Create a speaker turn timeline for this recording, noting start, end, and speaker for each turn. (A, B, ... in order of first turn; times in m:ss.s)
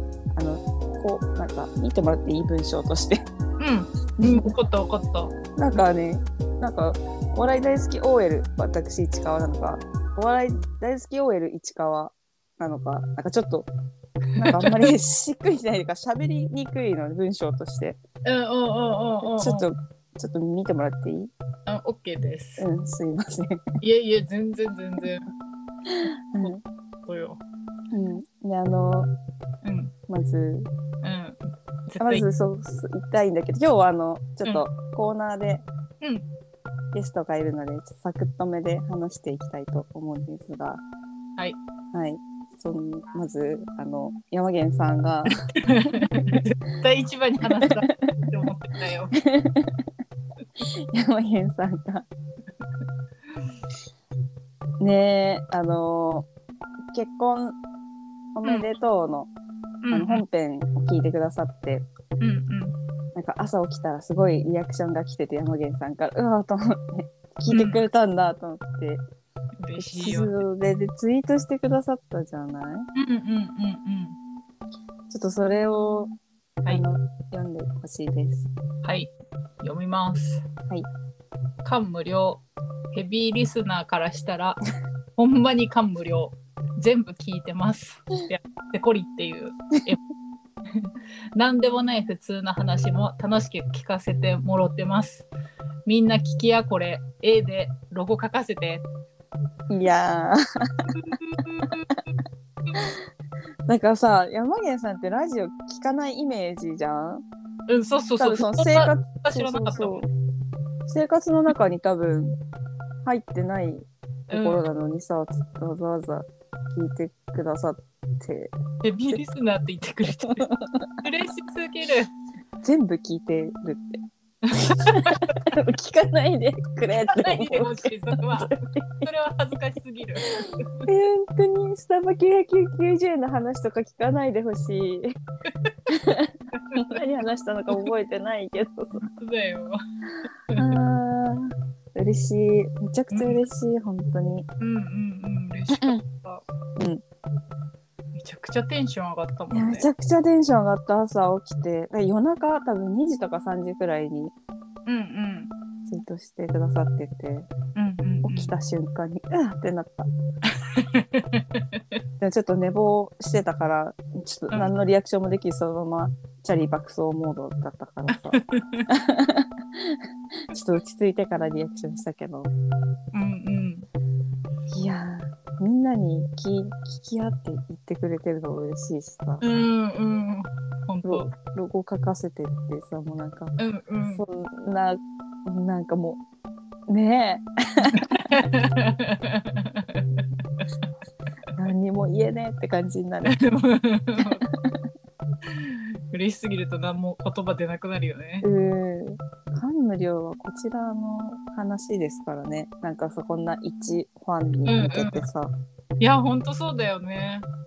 0:00.4-0:03.2 A
0:03.6-0:05.8 B
0:04.2-0:04.5 A
0:05.6-0:13.7 A
0:14.4-0:18.0 A
0:14.4-0:14.9 B
0:18.2-0:19.7 B
0:19.2-0:21.3 A
0:21.7-0:22.7 B
0:22.6-0:23.6 A
0:23.8-0:25.3 B
0:25.9-0:26.6 A
0:27.1-0:27.4 B
0:27.9-0:29.1 A
0:29.6-0:29.9 B
0:30.1-0:30.7 A
0:31.0-0:32.3 B
0:32.0-0:35.6 A
0:36.0-0:36.3 B
0:36.9-0:40.8 A
0:41.9-0:45.4 A
0:45.5-0:49.2 B
0:47.6-0:48.3 A
0:49.1-0:49.9 A
0:50.9-0:52.1 A
0:54.8-0:56.3 A
0:56.9-0:57.6 A
0:58.4-0:59.3 A
0:59.8-1:00.2 B
0:59.9-1:01.9 A
1:02.2-1:02.8 B
1:03.2-1:09.0 A
1:07.5-1:07.8 B
1:09.6-1:10.3 B
1:09.8-1:12.9 A
1:13.0-1:14.2 B
1:15.1-1:18.5 A
1:18.8-1:19.1 B
1:19.6-1:20.4 B
1:21.6-1:24.6 B
1:25.2-1:30.0 B
1:30.7-1:35.3 B
1:35.9-1:38.8 B
1:39.7-1:40.9 A
1:41.0-1:42.1 B
1:42.7-1:42.9 B
1:43.7-1:47.2 A
1:47.7-1:50.0 B
1:48.2-1:50.1 A
1:50.9-1:52.4 A
1:53.0-1:58.5 A
1:54.3-1:54.6 B
1:58.8-2:02.1 B
2:02.6-2:04.0 A
2:04.4-2:05.5 B
2:04.5-2:09.1 A
2:07.1-2:10.9 B
2:10.8-2:15.2 A
2:15.9-2:19.0 A
2:16.6-2:16.9 B
2:19.0-2:19.8 B
2:20.5-2:20.8 B
2:20.6-2:24.5 A
2:23.1-2:23.4 B
2:24.6-2:26.4 B
2:26.8-2:27.0 A
2:28.2-2:29.9 B
2:29.5-2:34.3 A
2:34.9-2:35.5 B
2:35.9-2:37.5 A
2:37.8-2:38.5 B
2:38.2-2:40.1 A
2:40.7-2:41.8 B
2:42.2-2:52.5 A
2:48.1-2:48.9 B
2:53.1-2:53.9 B
2:54.7-2:59.4 A
2:59.4-3:01.3 B
3:01.0-3:03.5 A
3:03.6-3:04.2 B
3:04.1-3:06.2 A
3:06.9-3:08.5 A
3:08.0-3:10.2 B
3:11.6-3:13.4 A
3:13.3-3:14.4 B
3:14.2-3:14.8 A
3:15.5-3:18.5 B
3:18.4-3:25.5 A
3:24.6-3:25.2 B
3:26.0-3:27.5 B